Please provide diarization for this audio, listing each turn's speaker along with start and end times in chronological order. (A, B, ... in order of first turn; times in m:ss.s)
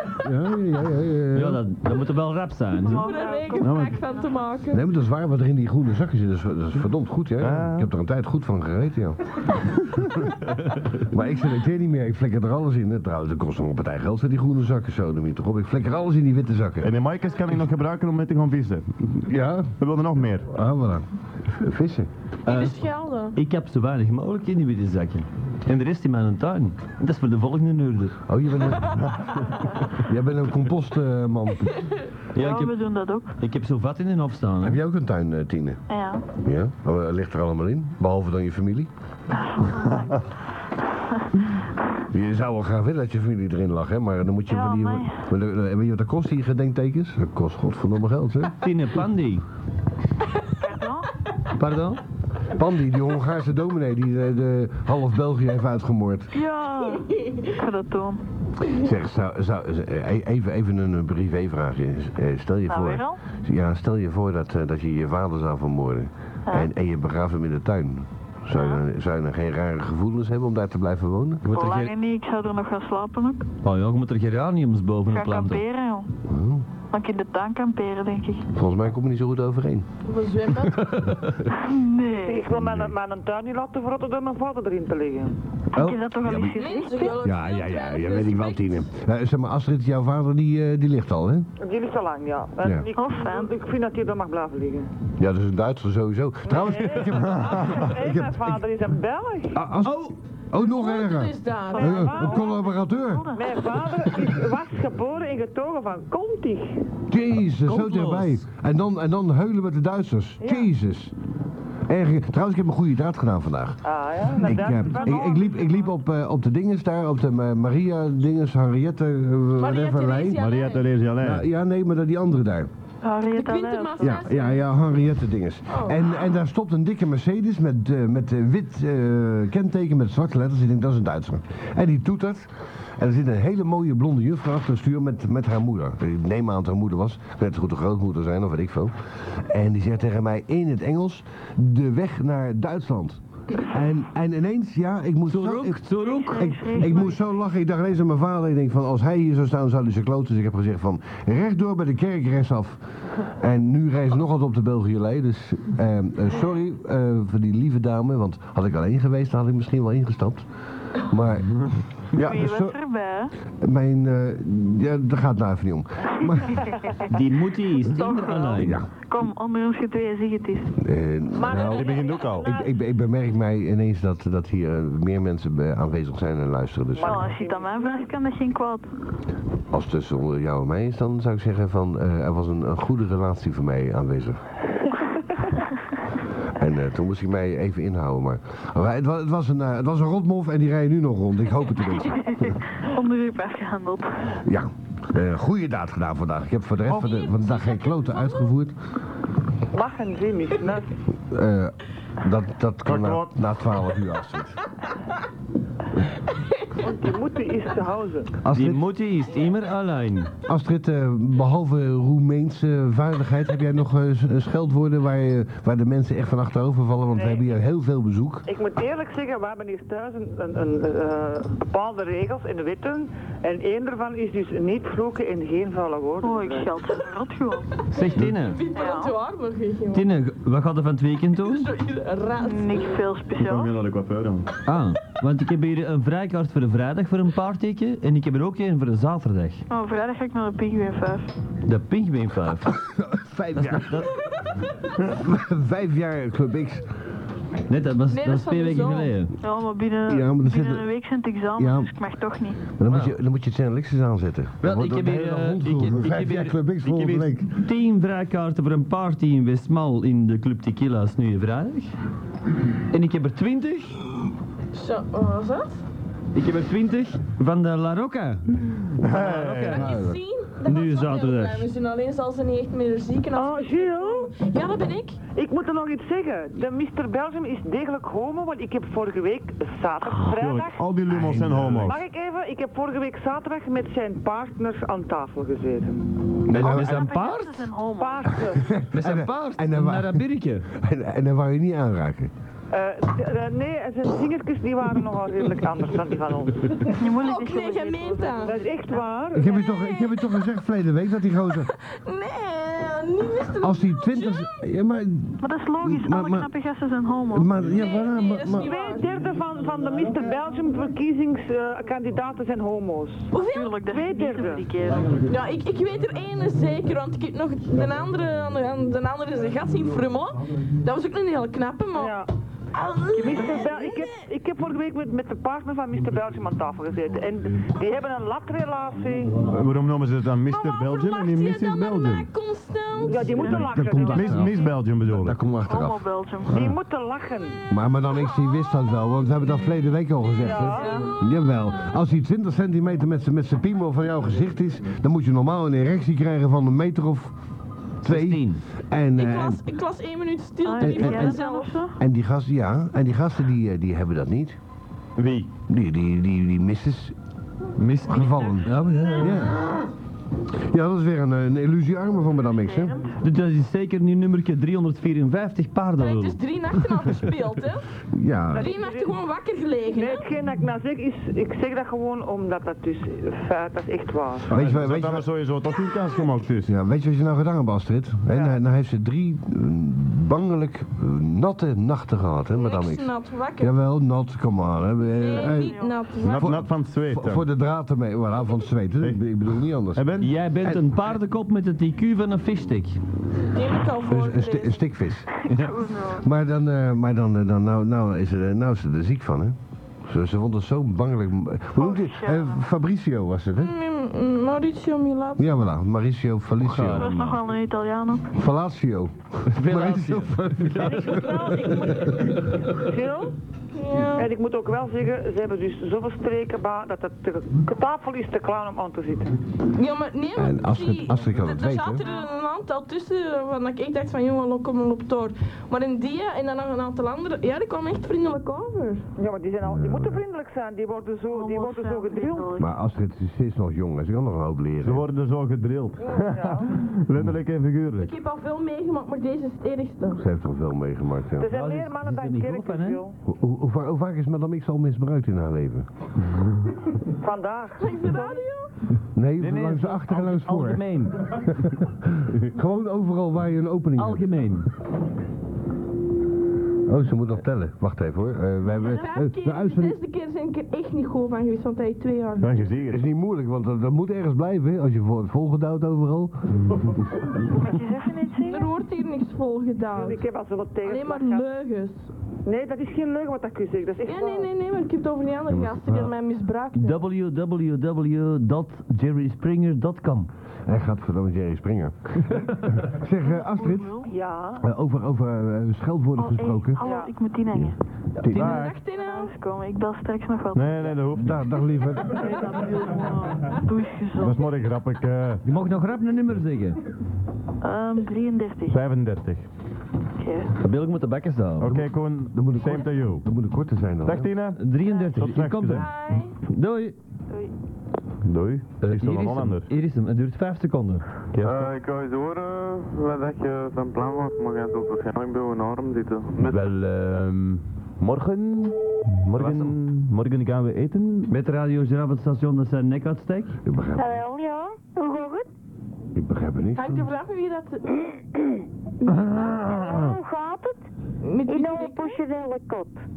0:00.2-0:01.6 A
0:01.3-0:03.1 B
0:02.8-0:03.7 C
0:02.9-0:04.8 D
0:03.6-0:04.0 E
0:04.7-0:09.4 A
0:07.4-0:07.9 E
0:11.0-0:16.9 A
0:16.8-0:19.2 E
0:19.3-0:19.7 A
0:19.8-0:20.5 E
0:20.5-0:22.1 A
0:22.5-0:22.8 B
0:22.5-0:23.4 D
0:23.4-0:28.2 B
0:28.3-0:31.9 A
0:32.4-0:32.8 B
0:32.4-0:33.4 C
0:33.4-0:34.8 B
0:34.6-0:35.8 A
0:35.9-0:36.2 C
0:36.4-0:38.9 A
0:39.3-0:40.3 C
0:39.8-0:40.2 E
0:42.1-0:48.7 A
0:44.5-0:45.2 C
0:48.6-0:49.4 B
0:50.6-0:51.1 C
0:51.6-0:52.0 B
0:52.5-0:56.3 A
0:56.3-0:58.2 C
0:57.0-0:57.5 D
0:58.7-1:11.5 A
1:02.7-1:03.2 C
1:08.5-1:08.8 C
1:11.4-1:11.9 B
1:11.5-1:13.5 C
1:13.6-1:15.6 B
1:15.1-1:16.1 C
1:16.3-1:16.6 A
1:16.9-1:18.5 C
1:18.5-1:19.9 A
1:20.0-1:20.9 D
1:20.7-1:21.5 B
1:21.5-1:22.5 C
1:22.2-1:25.4 F
1:22.5-1:22.9 A
1:25.7-1:27.2 C
1:26.2-1:26.6 A
1:26.6-1:28.8 D
1:27.2-1:31.5 A
1:31.6-1:34.9 F
1:32.6-1:32.9 A
1:32.9-1:33.5 C
1:35.2-1:38.6 A
1:36.4-1:39.6 F
1:37.3-1:37.8 E
1:39.5-1:43.3 A
1:39.8-1:40.1 B
1:40.6-1:42.2 D
1:41.7-1:44.3 C
1:41.9-1:42.4 F
1:43.3-1:46.9 F
1:47.1-1:51.2 A
1:47.6-1:48.4 B
1:50.4-1:50.7 F
1:51.9-1:53.8 A
1:53.8-1:55.9 F
1:54.4-2:00.4 A
1:59.6-2:00.9 D
2:00.4-2:01.4 E
2:01.2-2:02.7 A
2:03.0-2:04.2 C
2:03.3-2:04.6 D
2:04.0-2:42.8 A
2:05.7-2:06.0 D
2:25.3-2:27.0 B
2:26.0-2:27.2 C
2:42.2-2:43.3 C
2:43.6-2:46.7 A
2:46.2-2:47.1 C
2:47.1-2:48.8 B
2:48.0-2:48.5 D
2:48.1-2:48.4 C
2:48.6-2:48.9 A
2:49.0-2:50.8 C
2:50.8-2:57.2 A
2:51.4-2:52.5 D
2:51.6-2:52.5 E
2:51.9-2:52.3 C
2:56.9-2:58.1 F
2:57.0-2:58.9 C
2:59.7-3:04.4 A
3:06.5-3:12.6 A
3:12.0-3:14.4 C
3:14.4-3:18.8 A
3:17.2-3:18.3 D
3:19.7-3:21.0 F
3:21.3-3:24.6 A
3:22.9-3:23.4 E
3:26.8-3:28.4 F
3:28.4-3:28.8 A
3:28.5-3:30.3 B
3:30.5-3:38.5 A
3:37.1-3:37.5 F
3:38.5-3:46.7 F
3:46.2-3:47.9 C
3:47.9-3:48.6 B
3:48.0-3:50.1 D
3:48.7-3:49.2 C
3:49.9-3:51.7 B
3:51.5-3:52.9 D
3:52.3-3:53.8 C
3:53.4-3:54.5 E
3:54.7-3:59.6 B
3:59.7-4:01.3 C
4:01.6-4:02.8 B
4:02.7-4:04.1 A
4:03.6-4:04.1 B
4:05.0-4:06.9 A
4:07.7-4:09.4 B
4:08.1-4:09.1 D
4:09.4-4:12.7 C
4:10.1-4:10.9 A
4:11.6-4:11.9 A
4:12.8-4:17.5 A
4:14.6-4:16.6 B
4:16.8-4:17.3 E
4:17.5-4:21.9 B
4:22.9-4:24.0 B
4:24.7-4:25.8 D
4:26.3-4:29.9 B
4:29.0-4:30.0 E
4:29.5-4:35.2 D
4:29.7-4:30.2 A
4:30.6-4:31.7 B
4:33.3-4:34.3 F
4:35.4-4:40.9 F
4:40.2-4:42.0 E
4:41.1-4:42.0 A
4:41.8-4:46.2 F
4:46.5-4:47.0 A
4:46.5-4:47.7 B
4:46.5-4:48.5 C
4:48.0-4:48.7 F
4:48.5-4:52.3 A
4:48.9-4:50.7 B
4:52.7-4:56.9 F
4:56.9-4:58.5 C
4:56.9-4:58.6 D
4:58.4-4:59.6 F
4:59.3-5:01.7 A
4:59.5-5:00.4 D
5:01.8-5:04.5 D
5:03.6-5:06.5 A
5:05.4-5:07.5 C
5:07.3-5:08.7 A
5:07.7-5:09.1 D
5:08.6-5:13.3 F
5:13.3-5:13.8 D
5:13.4-5:15.1 C
5:13.9-5:14.7 F
5:14.9-5:15.4 B
5:15.3-5:22.2 D
5:22.0-5:22.3 F
5:22.7-5:24.2 D
5:23.2-5:29.4 F
5:29.5-5:32.3 E
5:30.5-5:33.6 D
5:33.1-5:34.6 F
5:33.4-5:33.9 C
5:33.5-5:36.0 A
5:34.1-5:35.4 E
5:35.7-5:36.7 C
5:36.5-5:36.8 E
5:36.5-5:37.6 F
5:37.7-5:47.3 A
5:40.3-5:41.0 F
5:40.5-5:41.5 D
5:48.0-5:49.6 A
5:48.0-5:48.6 B
5:49.2-5:51.7 D
5:50.6-5:52.0 C
5:50.8-5:51.4 A
5:51.9-5:54.6 A
5:55.2-5:55.5 E
5:55.7-5:57.2 A
5:57.8-5:59.5 B
5:58.0-5:59.9 A
6:00.5-6:03.0 A
6:02.6-6:03.1 C
6:03.2-6:06.4 B
6:06.0-6:07.9 D
6:08.1-6:08.7 A
6:08.5-6:10.3 D
6:08.6-6:09.2 F
6:09.9-6:14.6 F
6:14.5-6:15.3 A
6:14.5-6:16.7 E
6:16.7-6:30.1 A
6:22.5-6:23.7 D
6:25.0-6:26.5 D
6:25.2-6:26.1 C
6:26.2-6:27.4 E
6:30.0-6:30.4 E
6:30.2-6:33.0 B
6:33.5-6:34.9 D
6:34.1-6:43.7 A
6:35.4-6:36.3 C
6:41.8-6:42.6 C
6:43.6-6:45.5 D
6:45.4-6:47.3 A
6:46.6-6:47.4 B
6:46.8-6:48.3 C
6:48.3-6:52.2 A
6:49.5-6:51.3 B
6:51.1-6:53.3 F
6:51.2-6:51.8 D
6:53.7-6:54.3 D
6:54.1-6:59.4 F
6:59.7-7:09.0 D
7:00.4-7:02.0 A
7:09.2-7:12.5 F
7:09.7-7:10.2 A
7:11.3-7:12.7 C
7:12.6-7:15.0 A
7:14.8-7:18.1 E
7:16.1-7:16.8 F
7:18.0-7:20.2 D
7:20.2-7:21.5 A
7:21.4-7:23.2 F
7:21.5-7:23.0 B
7:23.3-7:25.9 A
7:27.2-7:28.4 F
7:27.8-7:28.7 D
7:29.1-7:34.3 A
7:29.4-7:31.3 B
7:34.0-7:34.7 B
7:36.9-7:40.0 A
7:38.8-7:42.5 D
7:42.4-7:43.0 E
7:42.9-7:46.3 A
7:47.6-7:48.7 C
7:47.7-7:48.3 G
7:48.5-7:50.2 D
7:49.9-7:51.5 F
7:50.8-7:52.1 D
7:52.5-7:54.5 F
7:54.0-7:57.0 D
7:56.8-8:00.3 B
8:00.7-8:04.0 A
8:03.2-8:04.1 C
8:04.1-8:04.6 F
8:04.6-8:06.8 A
8:06.2-8:07.8 C
8:06.8-8:07.1 F
8:07.5-8:08.6 A
8:08.2-8:08.7 B
8:08.4-8:08.7 E
8:08.4-8:09.3 D
8:08.7-8:10.9 C
8:10.5-8:11.4 E
8:11.1-8:12.3 A
8:12.6-8:14.5 C
8:14.2-8:15.4 E
8:15.4-8:16.8 B
8:17.6-8:18.8 C
8:18.7-8:19.5 E
8:20.2-8:20.6 C
8:20.6-8:21.8 B
8:21.6-8:23.2 E
8:21.6-8:24.3 A
8:24.0-8:25.9 E
8:24.5-8:27.0 B
8:25.7-8:26.3 D
8:28.2-8:29.7 E
8:28.8-8:31.0 B
8:31.3-8:31.8 E
8:31.4-8:36.6 H
8:36.4-8:41.3 E
8:36.5-8:36.8 B
8:39.3-8:39.8 B
8:41.3-8:43.6 B
8:43.6-8:44.2 A
8:44.0-8:45.5 G
8:46.1-8:47.1 A
8:46.8-8:48.2 D
8:49.0-8:50.2 E
8:49.6-8:50.8 G
8:51.2-8:52.2 D
8:51.5-8:53.0 G